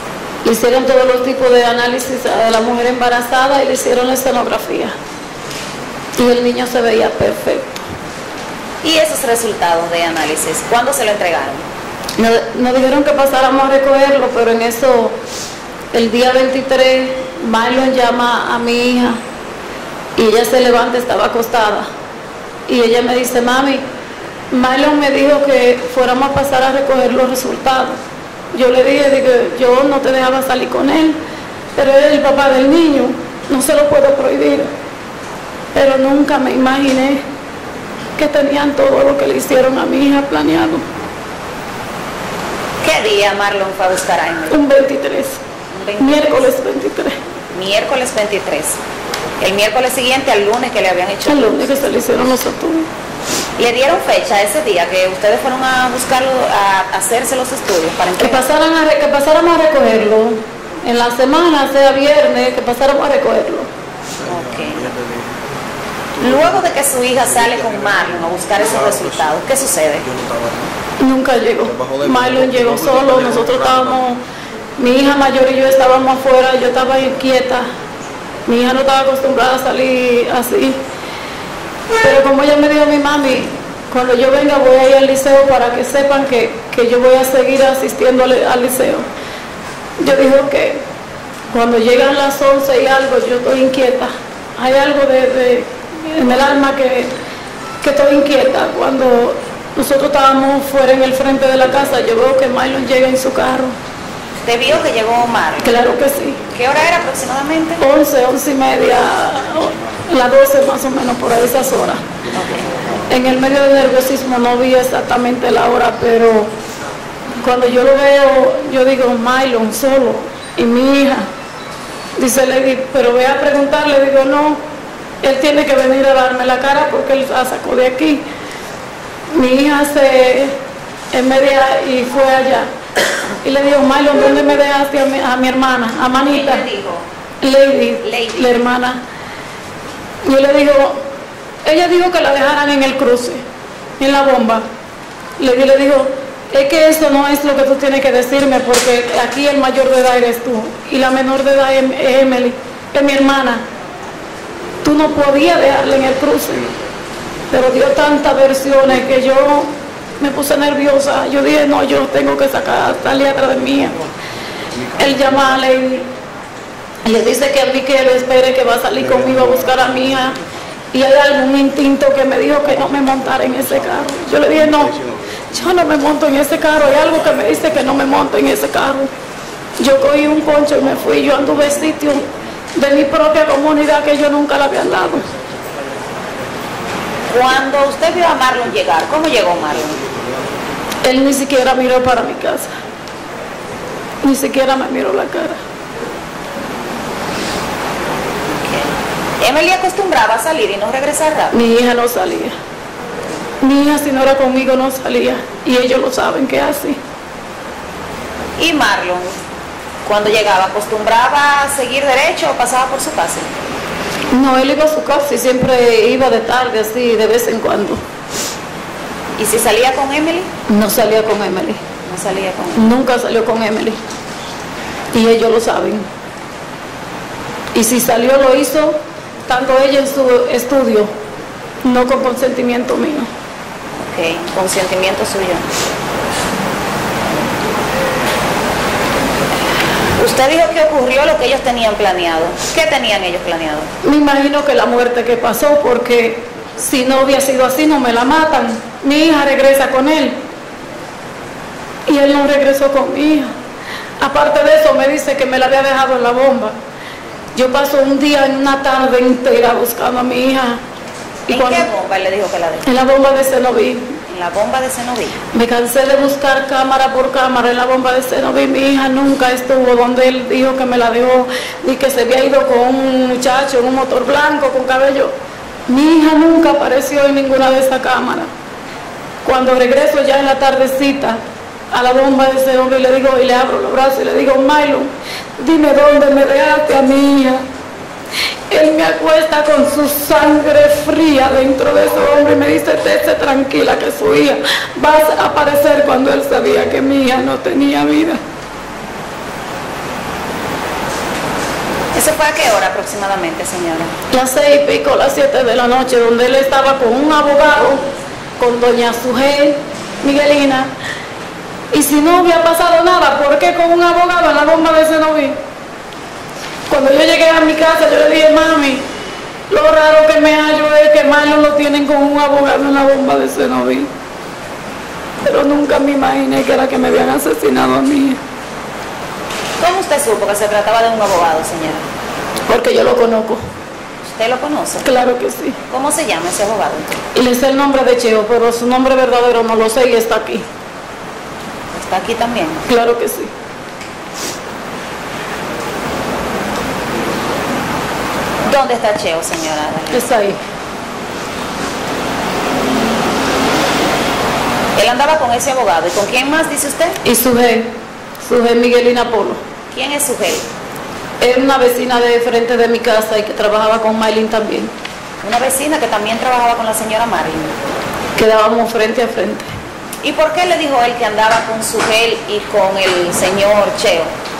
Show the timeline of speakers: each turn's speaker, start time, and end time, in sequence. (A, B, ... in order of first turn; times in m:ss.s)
0:00.4-0:04.9 A
0:06.2-0:07.8 A
0:08.8-0:11.6 B
0:12.2-0:15.2 A
0:15.9-0:19.2 A
0:20.2-0:21.9 A
0:22.7-0:23.8 A
0:24.5-0:28.0 A
0:28.5-0:31.2 A
0:31.8-0:34.7 A
0:35.7-0:37.2 A
0:38.2-0:40.8 A
0:42.8-0:44.6 B
0:44.5-0:45.4 A
0:45.7-0:46.5 B
0:46.0-0:47.2 A
0:47.5-0:48.8 B
0:49.4-0:51.7 B
0:51.3-0:52.9 A
0:53.6-0:58.4 B
0:58.2-1:03.7 A
1:04.2-1:04.8 B
1:06.2-1:10.1 B
1:11.0-1:14.2 A
1:14.8-1:17.7 A
1:18.5-1:20.8 A
1:22.0-1:29.0 A
1:30.0-1:30.8 A
1:31.5-1:37.1 A
1:37.8-1:43.7 A
1:44.4-1:45.8 B
1:45.6-1:46.4 A
1:46.5-1:47.8 B
1:47.8-1:52.0 A
1:52.3-1:52.7 B
1:53.1-1:56.5 A
1:57.4-2:01.3 A
2:02.2-2:04.6 A
2:05.2-2:08.2 A
2:09.3-2:10.6 A
2:11.1-2:12.7 A
2:13.4-2:16.6 A
2:16.3-2:17.0 B
2:17.4-2:19.0 A
2:18.0-2:18.5 B
2:20.2-2:21.0 A
2:21.6-2:23.4 A
2:24.0-2:24.6 A
2:25.4-2:33.6 A
2:34.8-2:36.7 A
2:37.5-2:44.0 A
2:45.0-2:46.1 A
2:47.0-2:50.4 A
2:50.9-2:55.0 A
2:55.5-2:59.1 A
2:59.8-3:05.2 A
3:07.3-3:10.0 B
3:11.0-3:12.7 A
3:14.2-3:15.6 A
3:18.6-3:18.9 B
3:19.4-3:21.5 B
3:21.5-3:22.6 A
3:23.6-3:27.0 A
3:28.6-3:29.3 B
3:30.0-3:33.5 B
3:34.3-3:38.0 A
3:39.4-3:40.5 B
3:40.7-3:41.8 A
3:42.0-3:42.9 B
3:42.8-3:44.0 A
3:45.1-3:46.0 A
3:47.7-3:51.1 A
3:51.8-3:53.3 A
3:54.0-3:55.6 B
4:00.2-4:03.9 B
4:04.0-4:10.4 A
4:12.1-4:13.5 A
4:14.2-4:16.8 A
4:17.6-4:20.8 A
4:21.5-4:22.9 B
4:21.5-4:21.9 A
4:22.8-4:24.2 A
4:24.3-4:25.4 B
4:25.5-4:35.3 A
4:35.9-4:38.5 A
4:39.4-4:41.4 A
4:41.9-4:47.6 A
4:48.7-4:58.4 A
5:02.1-5:04.1 B
5:04.3-5:08.0 A
5:08.6-5:10.9 A
5:11.9-5:15.6 A
5:16.9-5:19.0 A
5:19.7-5:24.1 A
5:25.4-5:28.4 A
5:29.8-5:32.0 B
5:32.7-5:33.6 A
5:34.2-5:35.1 B
5:35.0-5:35.8 A
5:35.9-5:37.2 B
5:37.3-5:40.6 A
5:41.9-5:42.8 B
5:42.9-5:43.5 A
5:48.6-5:50.3 B
5:50.1-5:50.6 A
5:55.0-5:57.2 B
5:57.2-5:59.6 A
5:59.9-6:00.6 B
6:01.4-6:04.9 A
6:05.4-6:07.7 B
6:08.4-6:09.7 A
6:10.2-6:14.3 B